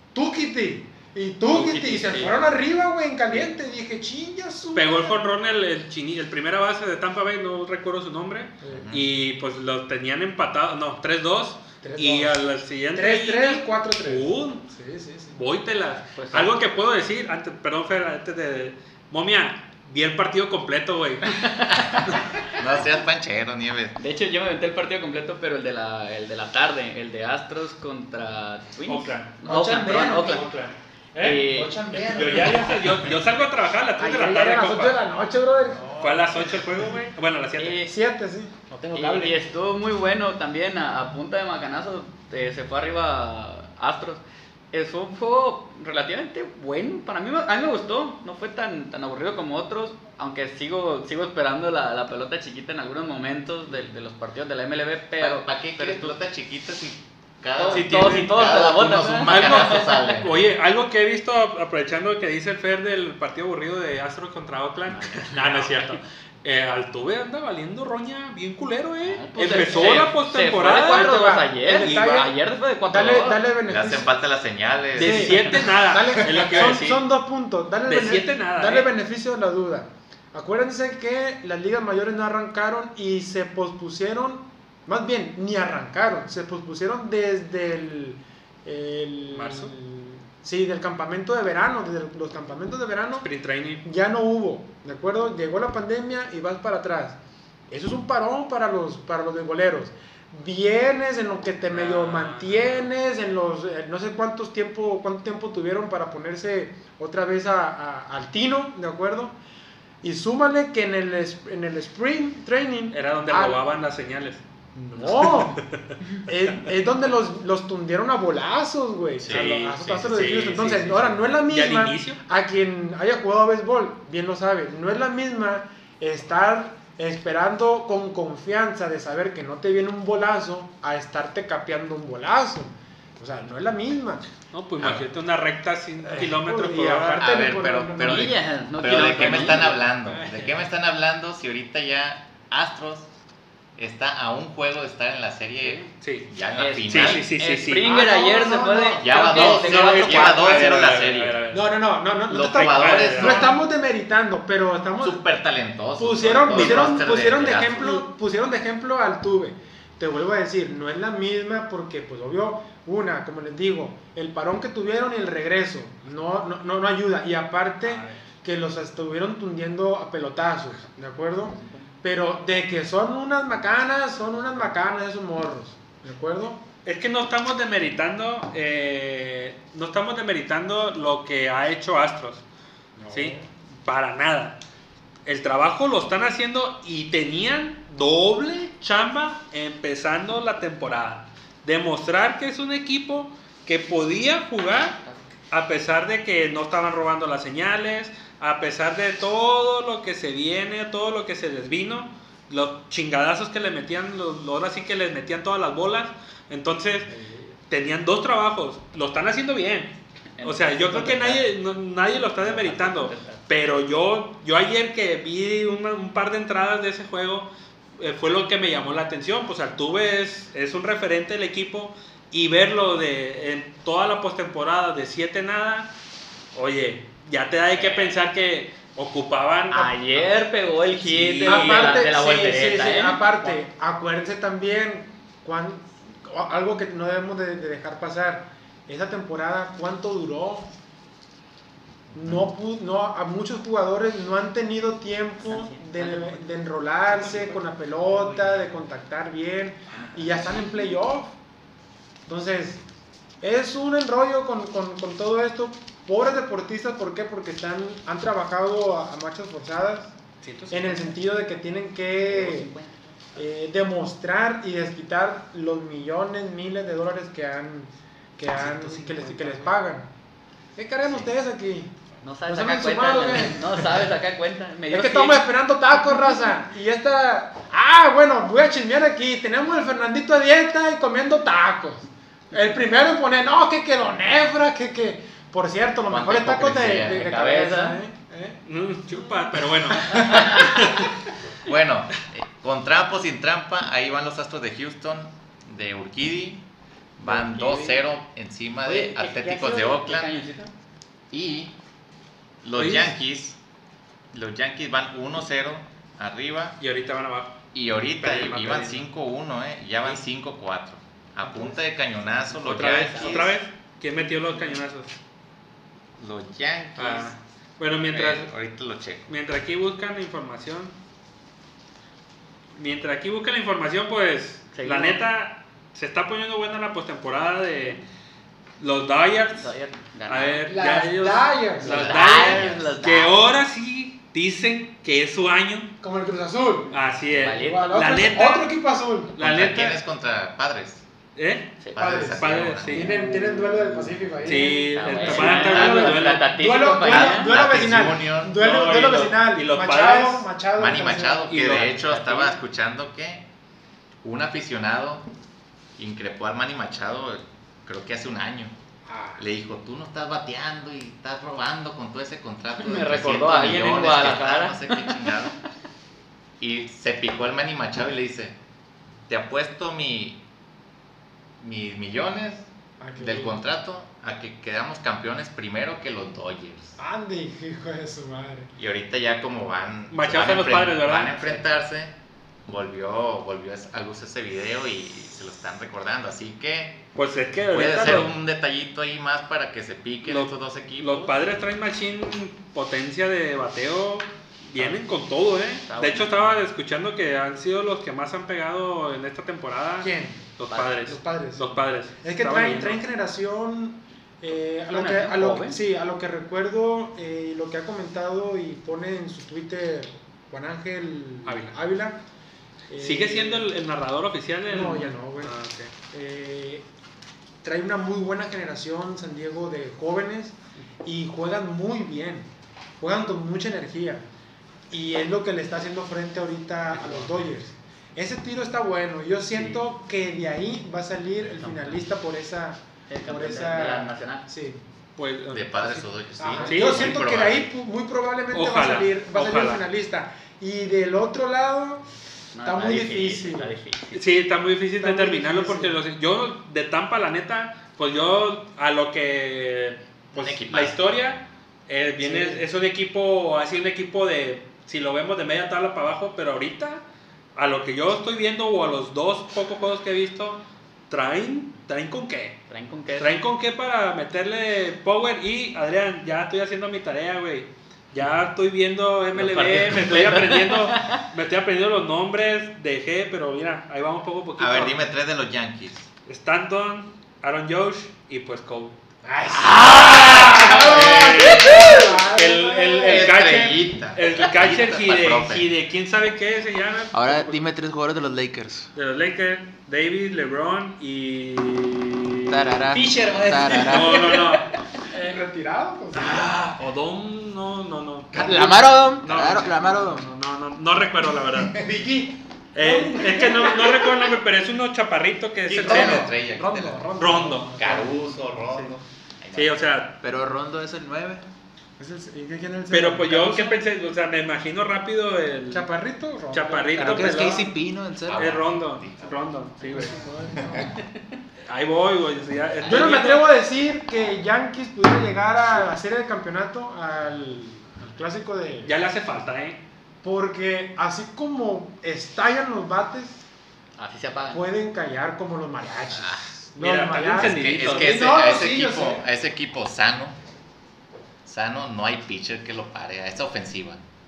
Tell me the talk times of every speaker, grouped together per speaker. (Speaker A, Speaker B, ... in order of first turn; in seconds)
Speaker A: 0.1-5.2, 8.6-8.9, 11.8-15.4, 34.0-35.9, 37.9-38.5, 69.5-70.1, 70.6-72.3, 72.9-74.1, 75.0-93.3, 93.8-97.2, 97.7-109.4, 110.0-113.6, 114.8-115.6, 116.2-134.3, 136.0-138.4, 147.8-149.8, 151.5-155.2, 156.0-176.6, 183.0-183.5, 231.4-240.7, 242.1-251.3, 252.3-252.8, 253.4-260.1, 260.7-262.7, 263.4-270.1, 270.8-271.9, 272.5-274.1, 274.9-290.3, 330.7-332.1, 336.0-337.0, 337.6-339.4, 342.0-351.5, 359.1-359.4, 373.0-373.6, 377.0-378.7, 400.0-400.4, 401.0-412.2, 412.9-413.7, 414.7-415.6, 416.1-416.9, 417.6-422.5, 423.0-424.2, 424.9-434.8, 436.4-442.1, 442.6-443.7, 445.0-446.0, 452.2-452.7, 479.2-483.5, 495.1-496.6, 501.7-504.3, 505.7-508.3, 512.0-513.8, 515.7-517.7, 519.9-520.9, 522.9-528.9, 530.2-533.4, 534.5-539.2
Speaker B: 1.5-2.3, 4.8-14.7, 15.3-21.6, 28.9-29.4, 30.2-31.4, 32.1-35.0, 36.0-37.9, 57.6-58.6, 59.2-72.2, 75.0-77.1, 77.9-78.9, 89.3-89.7, 93.2-93.8, 101.7-102.9, 112.9-114.4, 115.0-116.0, 119.2-122.2, 134.5-137.3, 138.9-140.6, 146.0-146.3, 146.9-147.9, 149.3-151.7, 152.4-153.6, 156.5-157.2, 167.8-168.2, 176.8-182.4, 183.1-184.6, 185.2-195.0, 195.5-207.1, 207.7-225.9, 226.6-230.4, 231.0-232.1, 260.4-261.2, 268.5-269.8, 288.7-291.1, 302.8-303.1, 306.8-307.6, 308.2-309.1, 312.6-315.2, 317.0-318.5, 319.3-320.9, 322.8-328.0, 328.8-329.7, 330.3-335.9, 336.9-338.8, 339.4-340.0, 341.4-343.2, 344.4-346.5, 348.5-350.5, 351.5-352.5, 380.1-381.6, 387.1-388.3, 390.2-403.0, 411.5-411.8, 413.0-415.9, 435.2-436.1, 436.6-437.2, 438.5-439.9, 444.1-457.0, 457.6-462.6, 463.1-475.0, 476.3-479.0, 479.7-487.6, 488.9-492.6, 493.6-494.7, 496.1-501.8, 502.8-506.3, 507.2-507.7, 509.5-510.2, 512.9-515.9, 516.5-517.7, 518.3-520.2, 521.7-523.5, 528.9-529.8, 536.8-538.4
Speaker C: 8.7-9.1, 21.9-24.0, 55.2-60.5, 73.7-75.5, 119.2-120.2, 134.8-135.1, 137.2-143.1, 143.8-147.4, 149.0-151.4, 152.3-153.6, 155.0-158.0, 242.1-242.5, 271.1-271.3, 286.1-287.3, 291.6-296.6, 297.2-300.3, 301.3-301.8, 302.6-303.6, 304.3-306.8, 307.7-313.6, 316.2-317.4, 318.1-319.4, 331.9-332.9, 339.4-341.0, 341.9-343.1, 345.2-346.2, 347.1-348.6, 350.8-353.5, 354.2-355.3, 356.0-358.7, 359.4-365.6, 366.6-368.6, 369.3-370.4, 371.6-372.7, 373.2-377.0, 378.8-382.1, 382.7-387.0, 387.7-391.4, 435.5-437.7, 450.3-451.1, 474.6-476.1, 483.1-485.7, 505.7-507.1, 507.8-509.9, 518.3-519.5, 537.4-540.4, 541.5-544.0
Speaker D: 16.1-16.5, 21.4-21.9, 24.0-30.5, 31.2-31.8, 37.6-37.9, 38.9-56.1, 57.6-60.2, 64.9-66.0, 69.0-73.4, 138.0-139.8, 145.6-145.9, 146.6-150.9, 207.1-207.5, 210.4-211.5, 212.4-213.4, 227.8-228.2, 229.7-233.6, 245.4-246.5, 247.2-247.6, 249.9-250.7, 262.3-263.2, 272.2-275.4, 286.8-288.0, 290.1-290.6, 297.2-298.1, 298.8-300.7, 312.8-313.5, 324.7-325.2, 329.6-330.7, 331.8-333.4, 337.3-337.9, 343.1-347.6, 351.8-352.5, 362.8-365.3, 395.9-396.6, 400.7-401.0, 404.9-405.8, 426.9-427.5, 429.5-429.8, 431.4-432.0, 433.1-434.5, 442.5-444.2, 462.7-463.4, 469.4-471.2, 492.9-494.6, 534.0-534.6
Speaker E: 29.4-30.5, 31.5-33.0, 35.8-36.8, 38.7-39.4, 479.8-480.6, 487.1-488.9, 492.5-494.5, 496.3-496.8, 498.3-500.3, 510.2-511.4, 517.0-518.5